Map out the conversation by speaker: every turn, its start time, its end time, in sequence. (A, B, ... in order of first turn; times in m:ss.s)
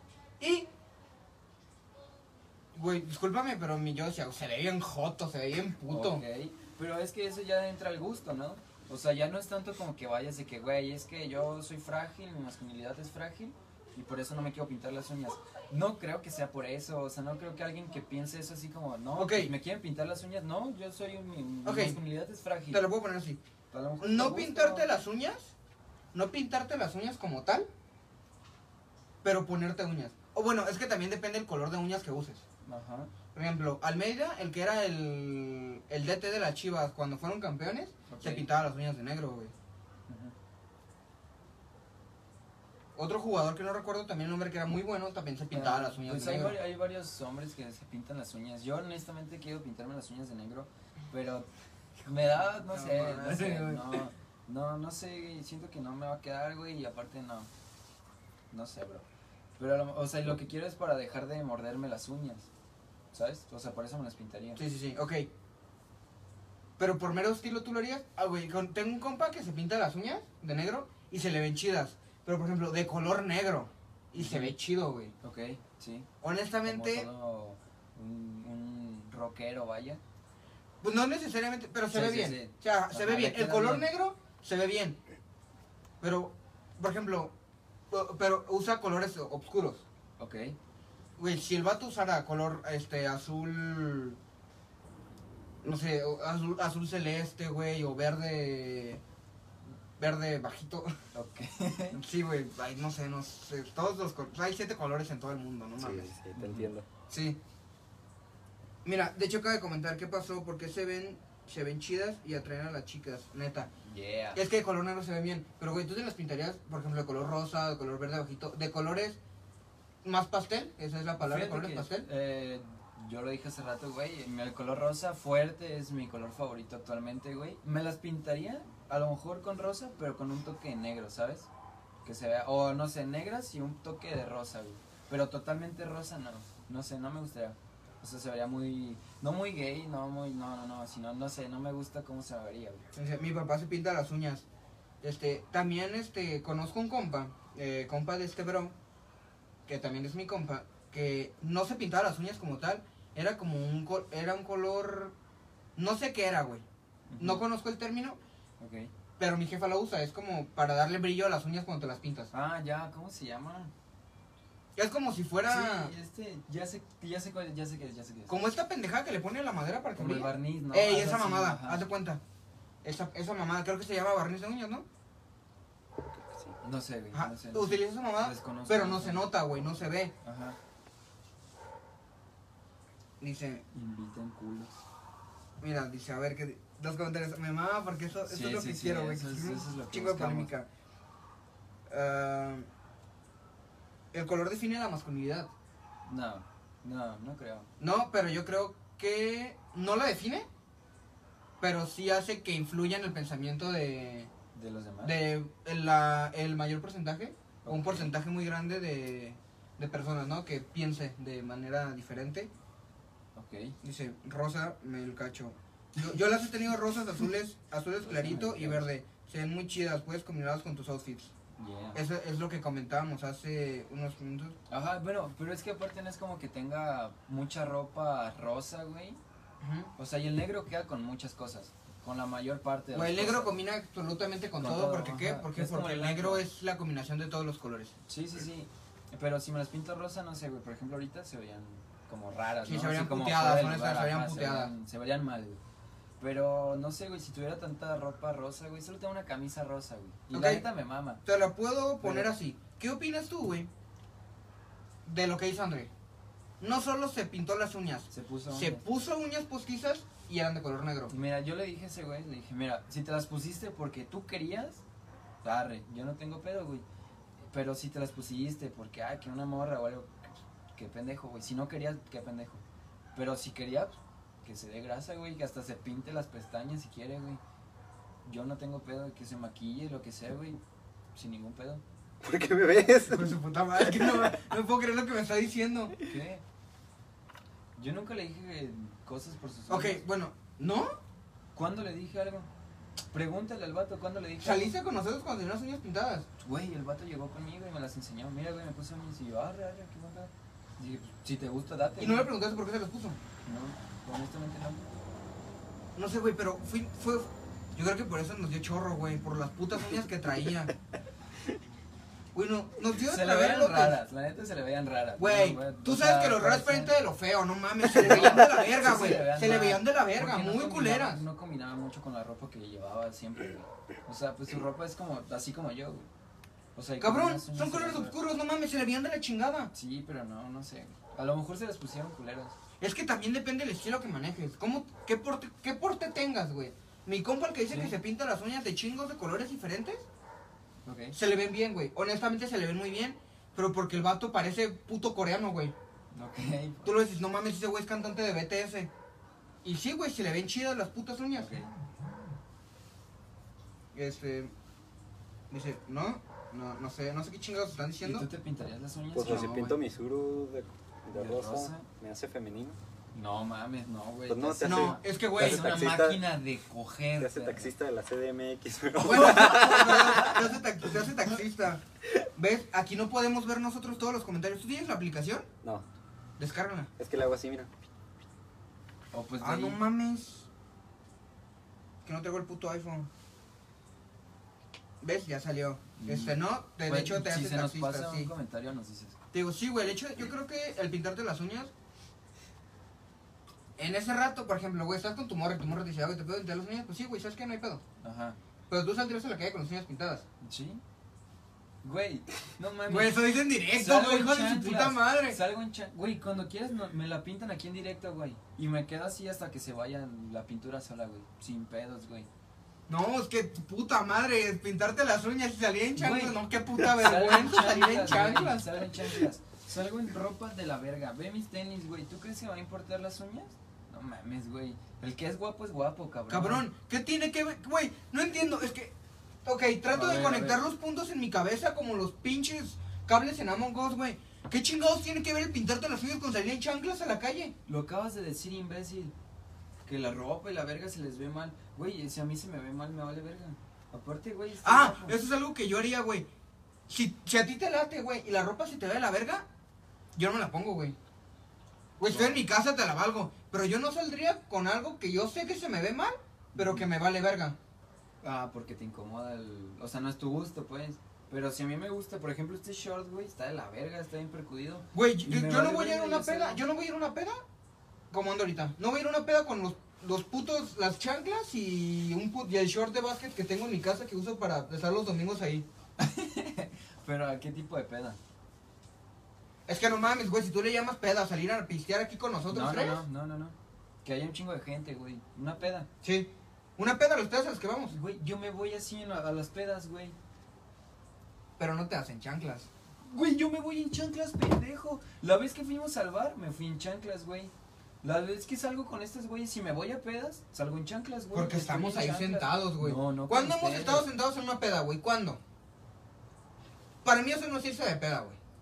0:00.4-0:00.7 A
0:02.7-0:06.2 A
0:05.9-0:22.8 B
0:19.2-0:19.5 A
0:21.6-0:22.0 A
0:22.7-0:23.4 A
0:23.7-0:24.9 B
0:24.0-0:25.5 A
0:26.1-0:27.7 A
0:29.2-0:32.4 A
0:32.6-0:33.1 B
0:33.3-0:39.5 A
0:38.1-0:38.5 B
0:40.1-0:40.3 B
0:42.9-0:46.6 A
0:45.5-0:51.5 B
0:52.0-0:57.5 B
0:52.1-0:54.0 A
0:58.5-0:59.0 B
0:59.6-1:02.5 B
1:03.1-1:04.6 B
1:04.6-1:05.3 A
1:06.8-1:15.1 A
1:14.2-1:14.6 B
1:15.2-1:16.1 B
1:16.2-1:17.1 A
1:16.6-1:20.0 B
1:20.8-1:25.0 A
1:21.9-1:23.9 B
1:26.0-1:27.3 A
1:27.9-1:29.8 A
1:30.2-1:30.6 B
1:31.2-1:34.2 A
1:35.6-1:39.0 A
1:40.0-1:40.9 A
1:41.1-1:42.0 B
1:41.9-1:46.1 A
1:45.8-1:46.8 C
1:46.3-1:46.7 B
1:47.1-1:47.4 A
1:48.8-1:53.7 A
1:53.8-1:54.4 B
1:54.3-1:59.2 A
2:00.0-2:02.0 A
2:01.2-2:11.5 B
2:12.0-2:22.8 B
2:22.9-2:24.4 A
2:25.0-2:28.7 A
2:29.6-2:35.1 A
2:35.8-2:36.6 A
2:37.1-2:37.4 B
2:37.2-2:38.2 A
2:38.6-2:38.9 B
2:39.2-2:42.3 A
2:42.3-2:43.7 B
2:44.8-2:45.9 A
2:45.4-2:48.4 B
2:48.3-2:52.2 A
2:49.9-2:51.9 B
2:52.8-2:54.8 A
2:56.0-2:56.6 C
2:56.6-2:59.3 B
2:57.1-3:00.1 A
3:00.2-3:00.6 B
3:03.2-3:03.6 A
3:03.7-3:04.8 B
3:05.6-3:10.7 A
3:08.2-3:10.5 B
3:11.9-3:12.7 A
3:14.1-3:15.5 A
3:16.0-3:17.7 B
3:17.8-3:20.5 A
3:21.6-3:24.3 A
3:24.5-3:25.3 B
3:25.0-3:32.5 A
3:27.6-3:28.1 B
3:33.3-3:33.7 B
3:33.8-3:41.3 A
3:38.0-3:38.9 B
3:41.6-3:42.0 B
3:41.9-3:44.6 A
3:44.7-3:49.2 B
3:49.6-3:49.9 A
3:50.0-3:53.6 B
3:52.9-3:57.9 A
3:54.6-3:56.4 B
3:58.1-4:05.6 B
4:02.6-4:04.7 A
4:06.2-4:11.2 B
4:10.3-4:10.6 A
4:11.2-4:13.7 A
4:12.0-4:12.3 B
4:15.0-4:15.9 A
4:16.6-4:21.1 A
4:18.1-4:18.8 B
4:21.1-4:24.8 B
4:25.4-4:26.8 B
4:27.5-4:32.6 B
4:33.1-4:37.4 B
4:38.2-4:40.6 B
4:41.1-4:41.8 B
4:42.2-4:44.4 C
4:43.1-4:45.9 A
4:46.0-4:46.4 B
4:47.8-4:50.0 B
4:49.7-4:50.9 A
4:51.5-4:52.5 B
4:53.1-4:54.7 B
4:54.4-4:56.3 A
4:56.4-5:02.3 B
5:02.0-5:03.2 A
5:03.4-5:04.8 B
5:06.0-5:10.7 A
5:12.3-5:14.0 A
5:13.0-5:16.9 B
5:15.2-5:21.2 A
5:17.9-5:26.1 B
5:26.7-5:28.2 B
5:27.0-5:29.7 A
5:29.7-5:32.5 B
5:32.8-5:40.0 A
5:37.7-5:38.0 B
5:40.8-5:41.2 B
5:41.1-5:45.7 A
5:46.1-5:46.9 B
5:46.8-5:48.9 A
5:49.6-5:51.5 A
5:51.3-5:51.7 B
5:53.9-5:54.5 A
5:55.5-5:58.3 A
5:58.0-5:59.7 B
5:59.1-6:02.8 C
5:59.2-5:59.8 A
6:01.1-6:01.9 B
6:03.1-6:07.7 B
6:04.3-6:06.2 C
6:04.6-6:05.8 A
6:07.2-6:10.4 C
6:09.0-6:11.8 A
6:12.4-6:15.5 A
6:16.4-6:16.9 A
6:17.0-6:17.7 C
6:19.1-6:19.8 B
6:19.4-6:20.5 A
6:22.0-6:23.1 A
6:25.0-6:28.3 A
6:26.0-6:29.2 B
6:29.3-6:31.7 A
6:33.8-6:37.8 A
6:38.0-6:38.4 B
6:38.7-6:40.2 A
6:40.4-6:40.8 B
6:41.8-6:52.3 B
6:42.9-6:45.4 A
6:52.9-6:58.8 A
6:56.0-7:06.7 B
7:06.3-7:17.5 A
7:09.9-7:10.6 B
7:17.6-7:19.1 B
7:19.8-7:25.2 B
7:24.6-7:26.3 A
7:26.9-7:29.4 A
7:30.1-7:31.0 A
7:32.0-7:37.6 A
7:32.1-7:32.4 B
7:36.5-7:36.9 B
7:38.2-7:46.6 B
7:44.9-7:47.4 A
7:48.1-7:55.6 A
7:56.0-7:58.2 B
7:59.7-8:03.0 A
8:02.5-8:05.9 B
8:06.0-8:08.0 A
8:07.9-8:10.2 B
8:11.6-8:12.7 A
8:13.0-8:24.1 B
8:21.3-8:25.4 A
8:27.0-8:28.4 A